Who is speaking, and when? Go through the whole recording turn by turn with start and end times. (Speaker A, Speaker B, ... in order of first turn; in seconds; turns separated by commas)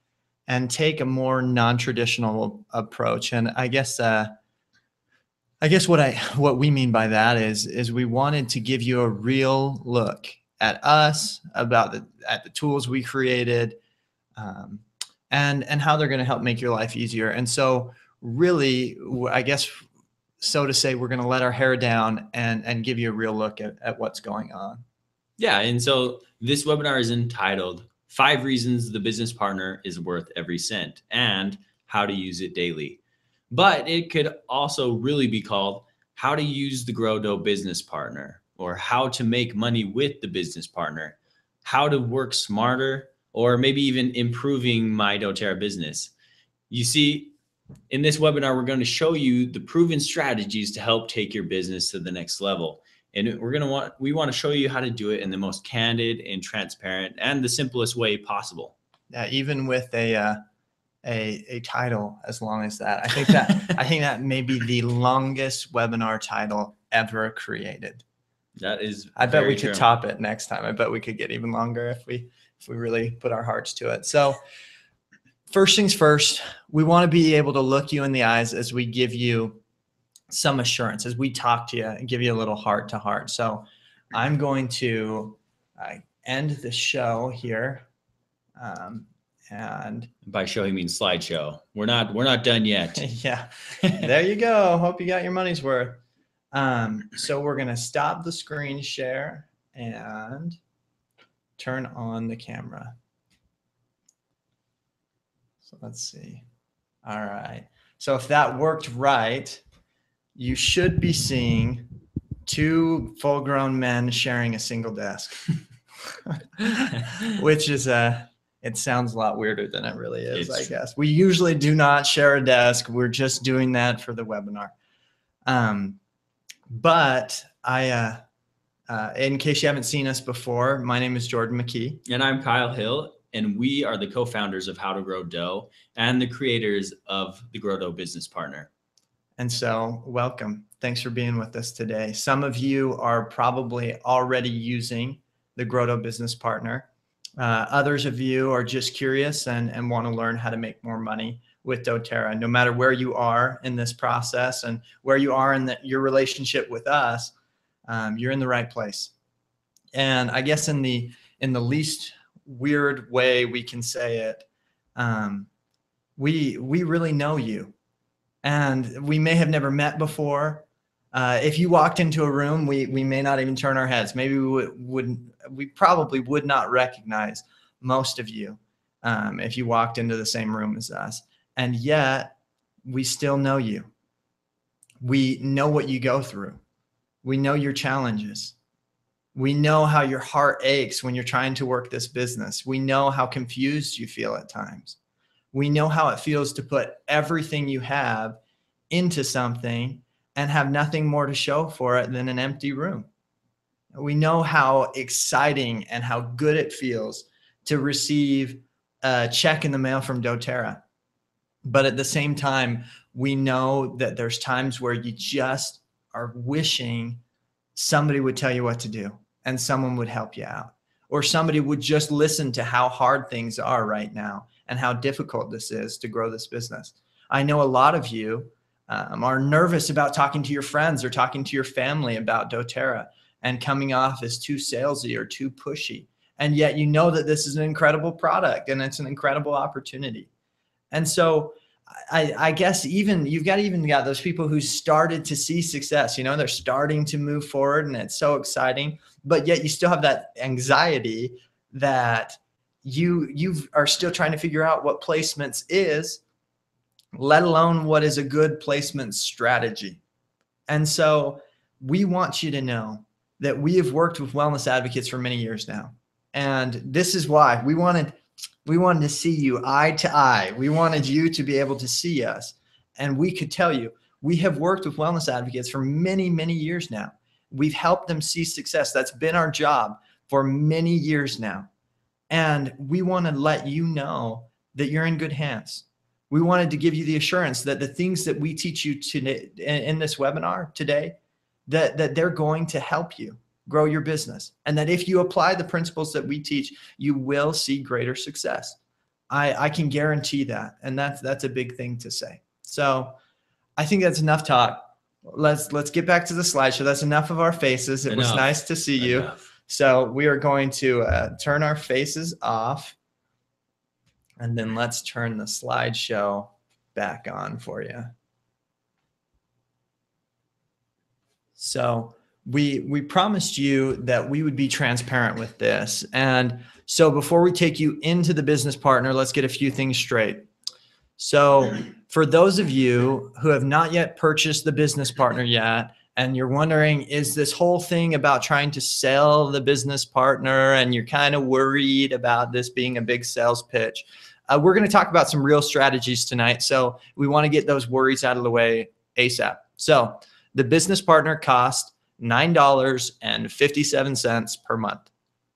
Speaker A: 0.5-4.3, Speaker A: 5.6-13.8, Speaker A: 14.4-19.8, Speaker A: 20.4-24.8, Speaker B: 25.4-33.0, Speaker B: 33.5-46.1, Speaker B: 46.7-47.3, Speaker B: 47.9-58.7, Speaker A: 59.1-60.4, Speaker A: 61.0-68.0, Speaker B: 68.6-69.9, Speaker A: 69.2-74.4, Speaker A: 75.5-79.6, Speaker A: 80.3-87.8, Speaker A: 88.6-90.1, Speaker B: 90.2-93.0, Speaker A: 93.0-96.0, Speaker A: 96.5-100.6, Speaker A: 101.6-103.0, Speaker A: 105.7-106.4, Speaker A: 107.0-109.6, Speaker A: 110.4-111.9, Speaker A: 112.5-115.6, Speaker A: 116.3-124.7, Speaker B: 120.3-120.7, Speaker A: 125.5-126.0, Speaker A: 126.7-128.2, Speaker A: 128.9-132.0, Speaker B: 132.1-138.7, Speaker A: 139.4-146.9, Speaker A: 147.4-157.3, Speaker A: 157.9-159.1, Speaker A: 159.9-165.5, Speaker A: 166.2-167.7, Speaker A: 168.4-182.3, Speaker A: 182.8-183.9, Speaker A: 185.0-186.6, Speaker A: 187.2-188.6, Speaker A: 189.3-195.0, Speaker A: 195.5-198.4, Speaker A: 198.9-203.1, Speaker A: 203.9-210.8, Speaker A: 211.6-217.2, Speaker A: 217.8-240.3, Speaker A: 240.9-241.6, Speaker A: 242.1-256.2, Speaker A: 257.1-260.0, Speaker A: 260.7-281.7, Speaker A: 282.3-291.2, Speaker A: 291.7-298.8, Speaker A: 299.3-303.2, Speaker A: 303.8-313.0, Speaker B: 308.1-309.4, Speaker A: 314.4-318.1, Speaker A: 321.6-330.5, Speaker A: 331.2-355.1